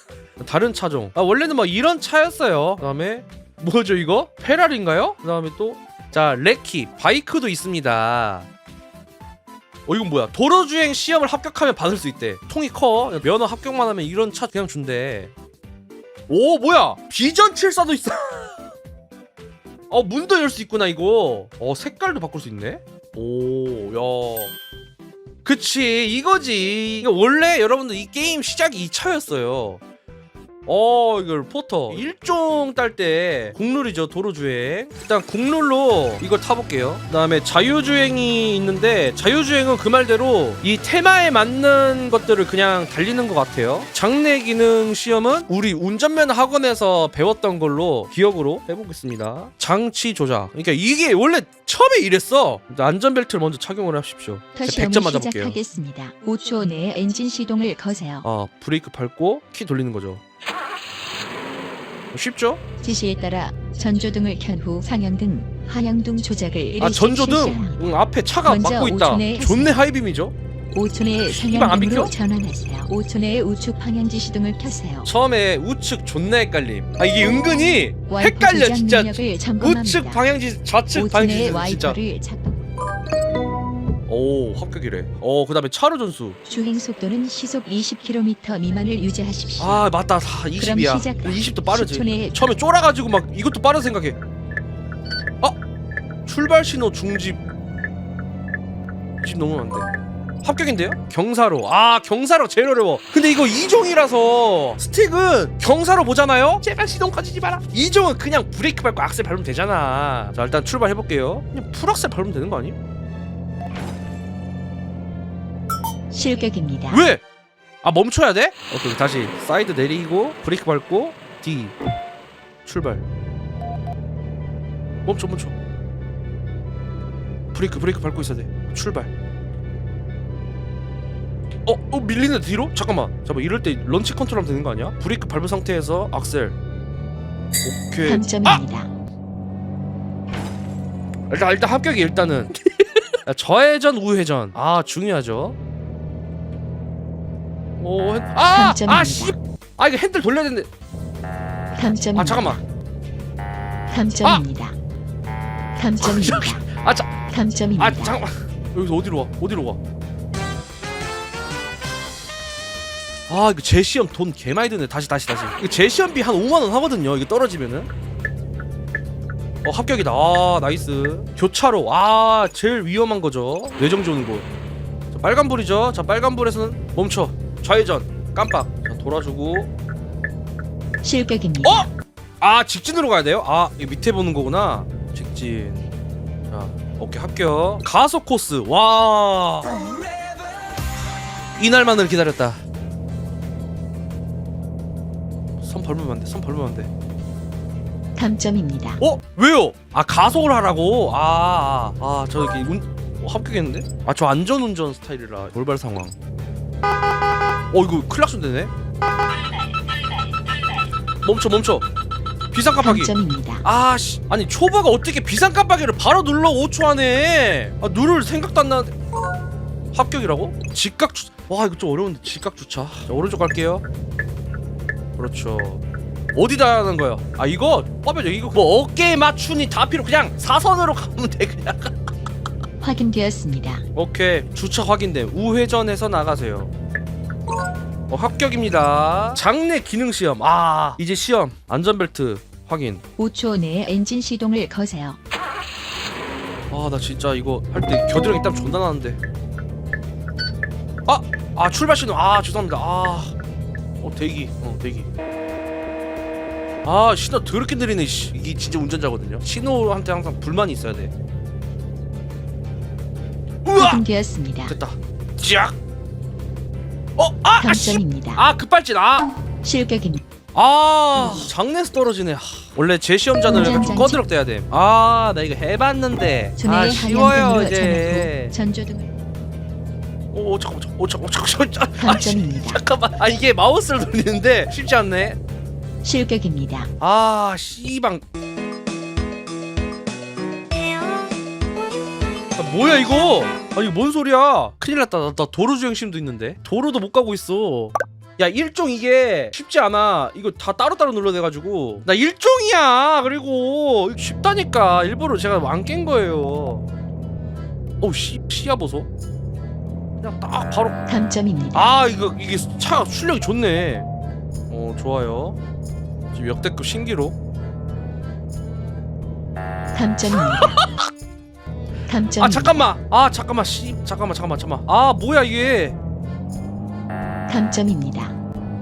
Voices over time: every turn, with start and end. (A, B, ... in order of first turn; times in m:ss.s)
0:00.4-0:08.5 A
0:09.9-0:15.3 A
0:16.3-0:18.6 A
0:19.9-0:24.5 A
0:25.4-0:29.8 A
0:30.7-0:55.6 A
0:54.5-0:58.2 B
0:58.2-1:00.2 A
1:02.1-1:02.6 A
1:02.8-1:07.9 B
1:06.8-1:10.3 A
1:08.4-1:09.8 B
1:10.7-1:15.1 B
1:11.3-1:12.1 A
1:15.0-1:22.0 A
1:18.1-1:20.3 B
1:20.9-1:22.6 B
1:24.1-1:26.4 A
1:26.5-1:29.9 B
1:29.6-1:34.2 A
1:30.6-1:32.4 B
1:36.3-1:37.4 A
1:39.2-1:39.9 A
1:40.4-1:52.8 A
1:56.1-1:57.0 B
1:56.9-1:57.2 A
1:57.8-2:01.8 A
2:02.6-2:03.0 A
2:05.1-2:05.5 A
2:07.5-2:09.1 A
2:11.7-2:16.6 A
2:17.6-2:18.6 A
2:18.0-2:18.9 B
2:21.3-2:22.6 A
2:23.3-2:25.6 A
2:27.8-2:30.7 A
2:28.5-2:29.4 B
2:31.8-2:32.6 B
2:32.1-2:32.6 A
2:33.9-2:34.8 B
2:35.8-2:36.7 B
2:36.0-2:39.8 A
2:37.3-2:38.2 B
2:43.3-2:47.9 A
2:49.6-2:54.5 A
2:55.1-2:59.7 A
3:01.0-3:01.9 B
3:01.6-3:01.9 A
3:02.4-3:05.9 A
3:06.5-3:09.7 A
3:11.6-3:12.6 A
3:15.6-3:16.9 A
3:18.2-3:19.0 B
3:19.0-3:26.2 A
3:27.7-3:28.7 A
3:31.2-3:31.9 A
3:32.5-3:38.9 A
3:32.8-3:33.6 B
3:39.9-3:43.8 A
3:45.2-3:45.8 A
3:46.4-3:52.0 A
3:52.8-3:53.8 B
3:54.0-3:56.7 A
3:58.1-4:03.0 A
4:03.2-4:05.2 B
4:06.7-4:09.2 A
4:11.1-4:13.3 A
4:14.0-4:15.1 A
4:16.8-4:21.1 A
4:23.6-4:24.0 A
4:23.8-4:24.8 B
4:24.7-4:25.8 A
4:27.2-4:29.3 A
4:27.6-4:28.4 B
4:29.6-4:30.2 B
4:30.5-4:38.5 A
4:31.2-4:31.5 B
4:33.4-4:34.2 B
4:36.6-4:39.1 B
4:40.3-4:45.4 A
4:42.0-4:42.8 B
4:46.0-4:46.9 B
4:47.0-4:48.2 A
4:52.6-5:06.9 A
5:08.0-5:09.1 A
5:10.2-5:11.0 A
5:11.1-5:11.8 B
5:11.7-5:14.1 A
5:14.7-5:15.6 A
5:16.3-5:17.4 A
5:19.9-5:20.9 B
5:20.3-5:21.1 A
5:22.1-5:22.9 B
5:22.4-5:26.0 A
5:27.5-5:28.3 B